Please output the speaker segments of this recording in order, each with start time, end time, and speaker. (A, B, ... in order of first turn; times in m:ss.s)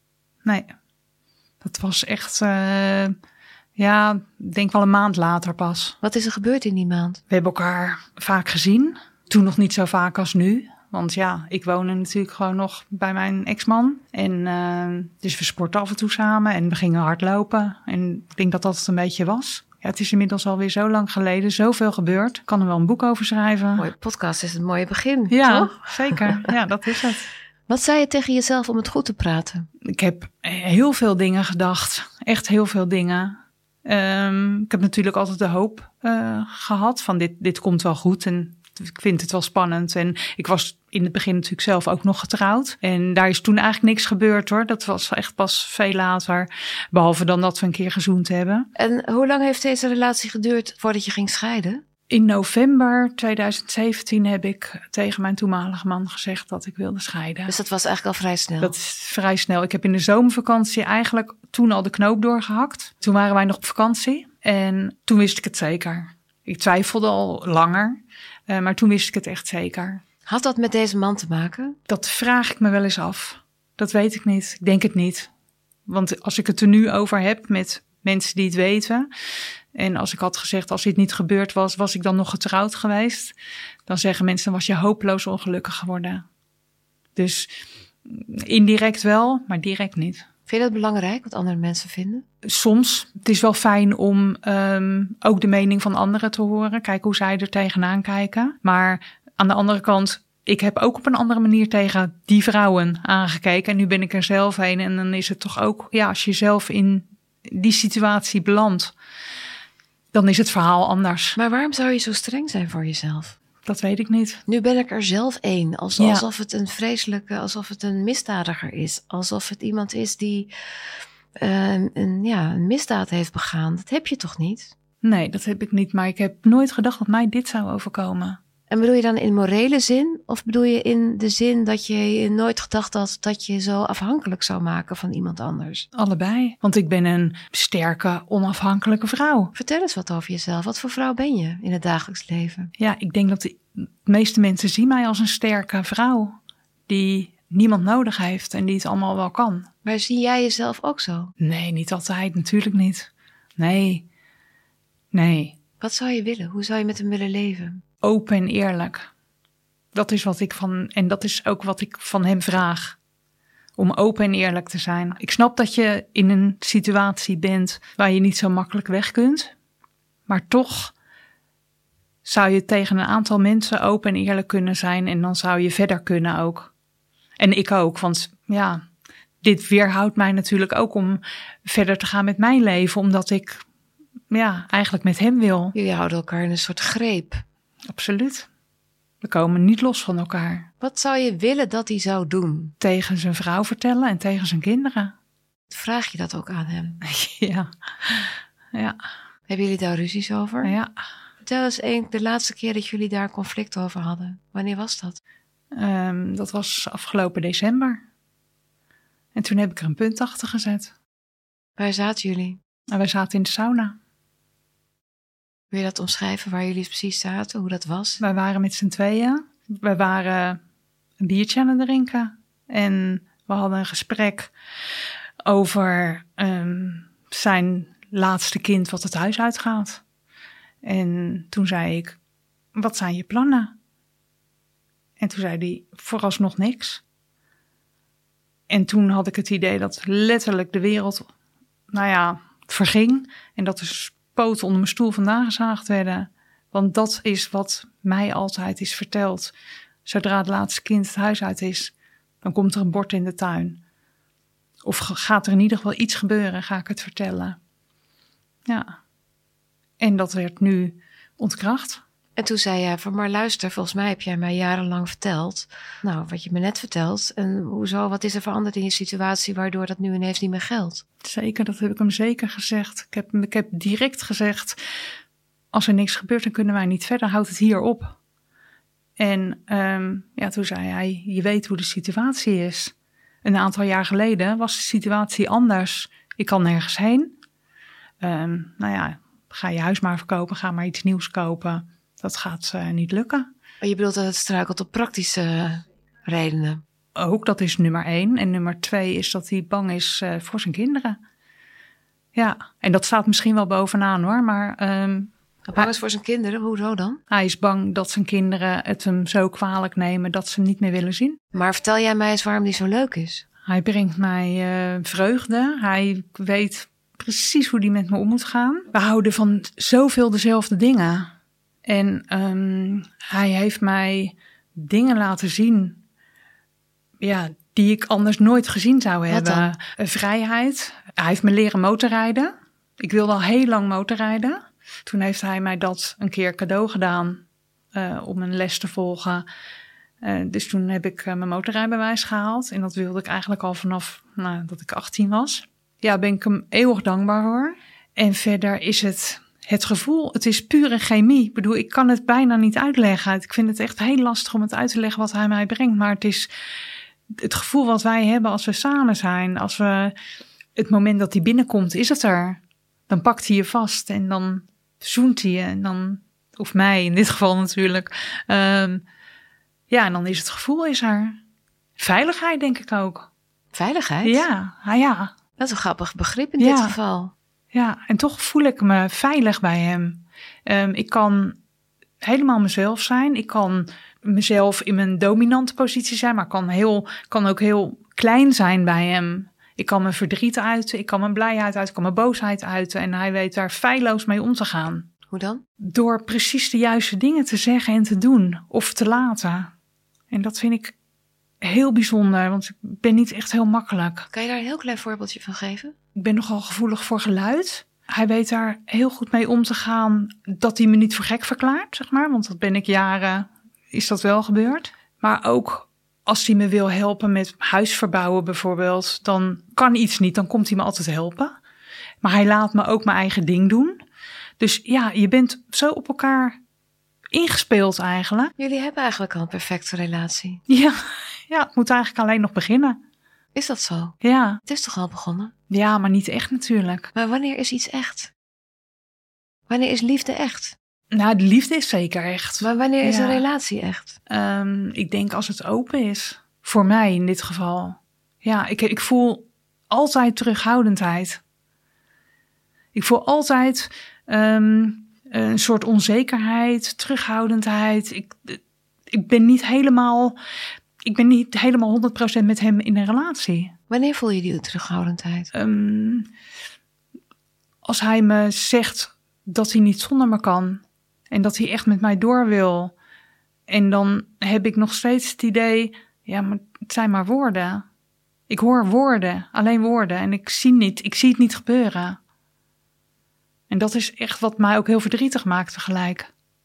0:00.4-0:00.7 A
0:01.6-0:03.2 A
0:03.8-0:06.0 A
0:06.0-0:07.2 B
0:07.3-0:23.9 A
0:23.8-0:26.5 B
0:25.3-0:27.3 A
0:27.7-0:29.7 B
0:29.9-0:48.7 A
0:48.8-0:51.8 B
0:52.1-0:57.5 A
0:57.5-0:58.7 B
0:58.6-1:10.0 A
1:10.3-1:11.8 B
1:11.9-1:15.3 A
1:15.9-1:19.1 A
1:19.8-1:23.3 A
1:23.9-1:26.2 A
1:27.2-1:27.5 A
1:28.1-1:30.2 A
1:30.5-1:32.2 B
1:32.4-1:48.9 A
1:50.1-1:51.4 A
1:51.4-1:53.4 B
1:53.6-1:54.4 A
1:54.5-2:00.5 B
1:56.0-1:56.2 A
2:01.4-2:04.7 B
2:05.0-2:08.4 A
2:08.7-2:15.9 B
2:16.0-2:19.5 A
2:19.6-2:22.7 B
2:22.8-2:26.4 A
2:26.9-2:29.7 A
2:29.8-2:31.3 B
2:31.4-2:34.0 A
2:35.1-2:35.6 A
2:35.8-2:37.8 B
2:38.0-2:39.1 A
2:39.9-2:43.0 A
2:43.8-2:49.5 A
2:50.3-2:50.9 A
2:52.2-2:56.7 A
2:57.4-2:58.8 A
2:59.4-3:03.6 A
3:04.3-3:05.8 A
3:05.7-3:07.4 B
3:07.9-3:08.5 A
3:09.2-3:10.7 A
3:10.8-3:12.8 B
3:12.8-3:15.1 A
3:15.7-3:17.0 B
3:17.0-3:19.0 A
3:19.5-3:20.7 B
3:20.6-3:20.9 A
3:21.4-3:25.2 B
3:25.7-3:28.0 A
3:29.4-3:30.9 A
3:31.8-3:32.6 B
3:32.9-3:34.0 A
3:35.7-3:38.2 B
3:38.2-3:40.6 A
3:41.2-3:44.5 A
3:45.5-3:50.0 A
3:50.8-3:52.2 A
3:52.8-3:53.7 A
3:55.2-3:57.0 A
3:58.7-4:01.3 A
4:01.9-4:09.5 A
4:10.1-4:13.8 A
4:14.8-4:17.6 A
4:18.7-4:19.0 A
4:20.0-4:22.0 A
4:22.4-4:31.0 B
4:31.2-4:34.8 A
4:35.7-4:38.2 A
4:39.2-4:42.9 A
4:43.4-4:47.3 A
4:48.2-4:53.5 A
4:53.8-4:56.8 B
4:57.2-5:01.2 A
5:02.4-5:05.9 A
5:05.7-5:07.2 B
5:07.3-5:11.4 A
5:11.5-5:13.4 B
5:13.7-5:21.3 A
5:21.9-5:26.0 A
5:27.2-5:37.4 A
5:29.3-5:29.7 B
5:37.9-5:39.4 A
5:40.2-5:56.5 A
5:57.4-6:00.1 A
6:00.8-6:09.0 A
6:09.9-6:11.4 A
6:12.0-6:13.3 A
6:13.7-6:14.4 B
6:14.2-6:15.3 A
6:15.6-6:17.3 B
6:16.6-6:17.0 A
6:17.7-6:21.6 A
6:22.2-6:35.1 A
6:35.3-6:35.6 B
6:35.8-6:39.7 A
6:40.3-6:40.9 A
6:41.6-6:44.3 A
6:44.3-6:45.9 B
6:46.2-7:01.6 A
7:02.2-7:04.0 A
7:04.6-7:06.6 A
7:07.3-7:08.5 A
7:08.6-7:10.6 B
7:10.7-7:13.0 A
7:13.6-7:14.2 B
7:14.2-7:14.6 A
7:14.7-7:15.5 B
7:15.7-7:17.1 A
7:17.2-7:18.3 B
7:19.7-7:20.8 B
7:21.1-7:23.4 A
7:22.6-7:24.2 B
7:24.3-7:31.4 A
7:33.0-7:38.6 A
7:39.1-7:40.4 A
7:41.0-7:43.7 A
7:43.9-7:45.5 B
7:45.5-7:46.3 A
7:47.8-7:52.9 A
7:53.7-7:57.8 A
7:58.5-8:02.2 A
8:03.7-8:06.3 A